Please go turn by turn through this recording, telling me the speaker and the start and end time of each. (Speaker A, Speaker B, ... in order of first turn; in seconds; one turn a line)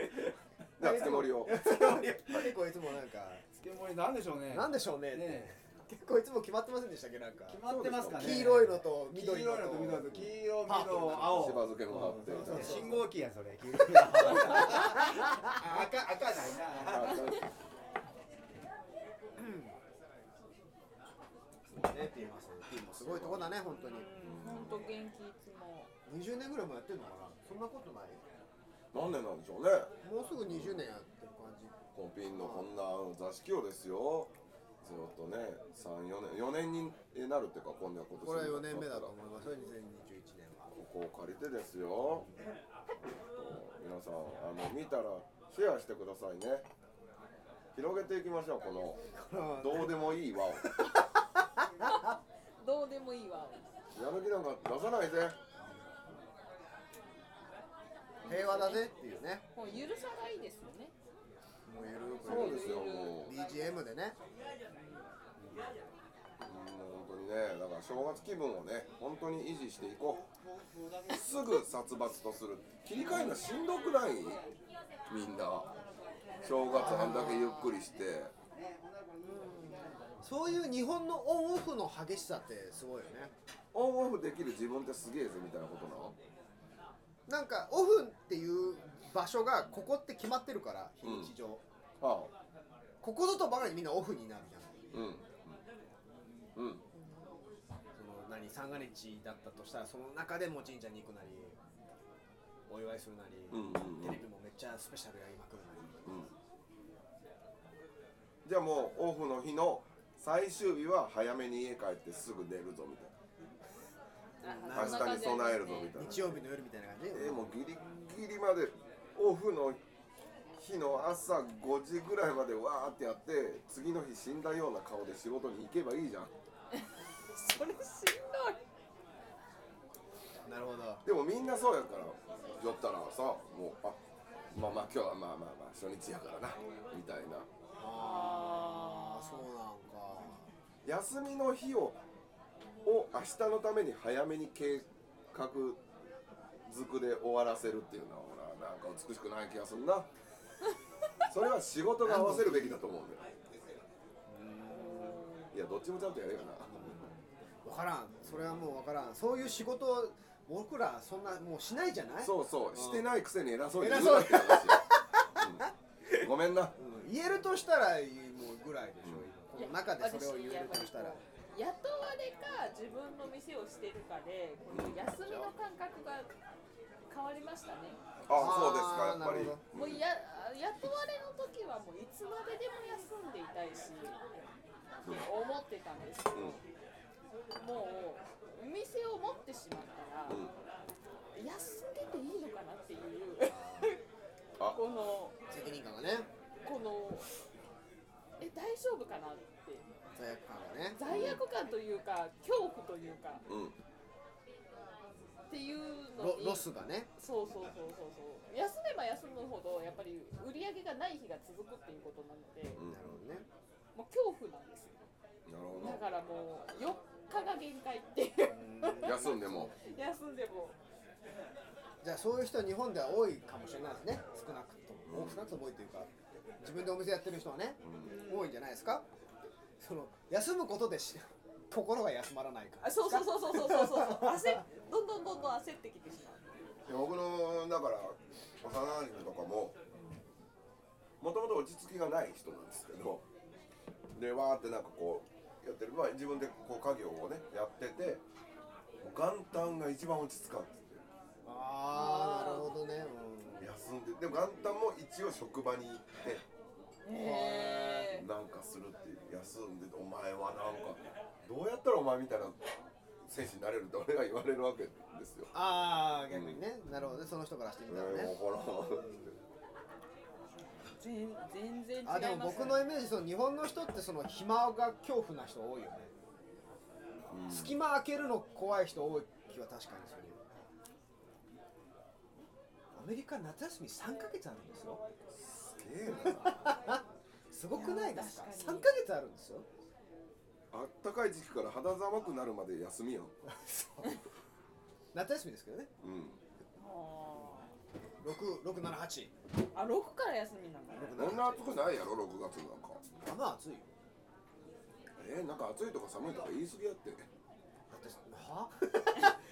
Speaker A: 0.8-2.5
Speaker B: 0.8-3.4
Speaker C: 3.5-5.5
Speaker B: 4.5-7.6
Speaker C: 7.4-17.3
Speaker A: 7.7-8.4
Speaker B: 8.1-11.4
Speaker A: 11.2-12.8
Speaker B: 12.0-13.1
Speaker B: 14.9-15.5
Speaker A: 16.8-17.5
Speaker B: 19.4-19.8
Speaker B: 21.7-24.1
Speaker A: 22.9-23.6
Speaker D: 23.7-25.9
Speaker A: 24.2-24.9
Speaker B: 26.1-28.2
Speaker A: 28.9-29.9
Speaker B: 30.0-31.8
Speaker A: 30.4-30.8
Speaker A: 31.9-39.1
Speaker B: 32.3-32.7
Speaker B: 38.1-40.7
Speaker A: 40.7-42.3
Speaker A: 43.3-46.7
Speaker A: 47.7-49.0
Speaker B: 49.1-50.9
Speaker A: 49.6-50.7
Speaker D: 52.6-53.7
Speaker A: 53.9-55.4
Speaker D: 58.2-58.9
Speaker B: 58.2-59.5
Speaker D: 59.5-60.9
Speaker B: 61.6-64.2
Speaker D: 62.2-63.3
Speaker A: 62.2-63.3
Speaker D: 64.7-65.1
Speaker B: 65.4-65.8
Speaker A: 66.4-70.2
Speaker A: 71.1-74.4
Speaker D: 73.1-73.4
Speaker A: 75.1-75.7
Speaker C: 76.2-76.7
Speaker A: 76.4-78.3
Speaker B: 76.6-77.6
Speaker D: 77.3-77.8
Speaker C: 78.5-80.5
Speaker B: 79.3-83.3
Speaker A: 83.7-86.2
Speaker B: 87.3-91.6
Speaker A: 91.0-91.3
Speaker A: 92.0-92.3
Speaker B: 93.0-95.1
Speaker A: 94.9-95.6
Speaker A: 96.5-96.8
Speaker D: 96.9-97.4
Speaker B: 97.9-101.6
Speaker B: 102.7-106.3
Speaker A: 103.5-104.2
Speaker A: 106.0-106.3
Speaker A: 108.4-113.1
Speaker D: 114.4-116.5
Speaker B: 114.4-117.6
Speaker A: 114.7-116.3
Speaker A: 117.1-119.8
Speaker A: 120.5-126.3
Speaker D: 127.3-128.6
Speaker B: 130.4-131.0
Speaker A: 131.0-134.0
Speaker A: 134.5-137.5
Speaker B: 137.8-140.5
Speaker D: 137.8-139.4
Speaker A: 140.8-142.0
Speaker A: 142.8-145.8
Speaker A: 146.6-150.1
Speaker A: 151.3-153.2
Speaker B: 152.0-152.9
Speaker B: 154.3-155.3
Speaker D: 154.7-155.5
Speaker A: 155.5-157.0
Speaker B: 156.6-163.2
Speaker A: 158.3-158.6
Speaker A: 162.2-165.7
Speaker B: 163.8-165.7
Speaker A: 166.2-166.7
Speaker B: 166.8-171.2
Speaker D: 169.5-176.3
Speaker A: 174.7-175.0
Speaker B: 174.9-175.5
Speaker D: 177.1-178.0
Speaker A: 178.3-180.0
Speaker B: 178.3-179.6
Speaker D: 179.7-184.4
Speaker A: 185.0-185.3
Speaker D: 185.0-186.6
Speaker A: 186.3-186.6
Speaker D: 187.6-190.4
Speaker A: 190.3-190.5
Speaker D: 191.3-194.0
Speaker B: 193.4-193.9
Speaker D: 194.6-195.3
Speaker B: 195.5-196.3
Speaker D: 196.6-197.3
Speaker D: 198.4-199.8
Speaker B: 200.2-201.0
Speaker D: 200.9-203.4
Speaker A: 201.1-201.4
Speaker A: 203.5-203.8
Speaker D: 205.5-206.7
Speaker B: 206.2-207.1
Speaker D: 207.2-212.8
Speaker A: 212.7-213.2
Speaker B: 212.8-213.5
Speaker D: 213.9-215.0
Speaker A: 215.4-216.0
Speaker D: 215.7-219.1
Speaker B: 218.5-219.9
Speaker A: 219.0-219.7
Speaker D: 219.8-220.8
Speaker B: 222.0-229.1
Speaker A: 225.1-225.6
Speaker A: 227.8-228.2
Speaker D: 228.0-228.4
Speaker B: 229.8-234.4
Speaker D: 232.8-236.6
Speaker A: 236.8-239.7
Speaker A: 241.2-243.2
Speaker A: 244.1-248.2
Speaker A: 249.0-251.0
Speaker B: 251.4-253.7
Speaker D: 251.9-252.8
Speaker A: 253.6-256.4
Speaker D: 257.0-258.2
Speaker B: 257.1-258.1
Speaker A: 258.1-262.6
Speaker A: 263.2-265.5
Speaker B: 265.5-268.4
Speaker A: 266.3-266.6
Speaker A: 267.9-269.3
Speaker B: 269.0-269.4
Speaker D: 271.0-272.9
Speaker B: 272.0-276.1
Speaker A: 277.3-277.7
Speaker B: 277.5-280.4
Speaker B: 282.9-285.0
Speaker A: 285.3-286.6
Speaker B: 286.5-287.0
Speaker B: 287.5-289.6
Speaker D: 287.7-288.9
Speaker A: 290.7-293.3
Speaker B: 293.6-294.1
Speaker B: 295.1-295.9
Speaker A: 296.0-296.4
Speaker D: 296.8-297.7
Speaker B: 298.2-299.3
Speaker D: 299.7-301.1
Speaker B: 300.9-301.8
Speaker A: 301.1-303.0
Speaker B: 303.2-303.9
Speaker A: 305.2-307.3
Speaker B: 307.9-309.4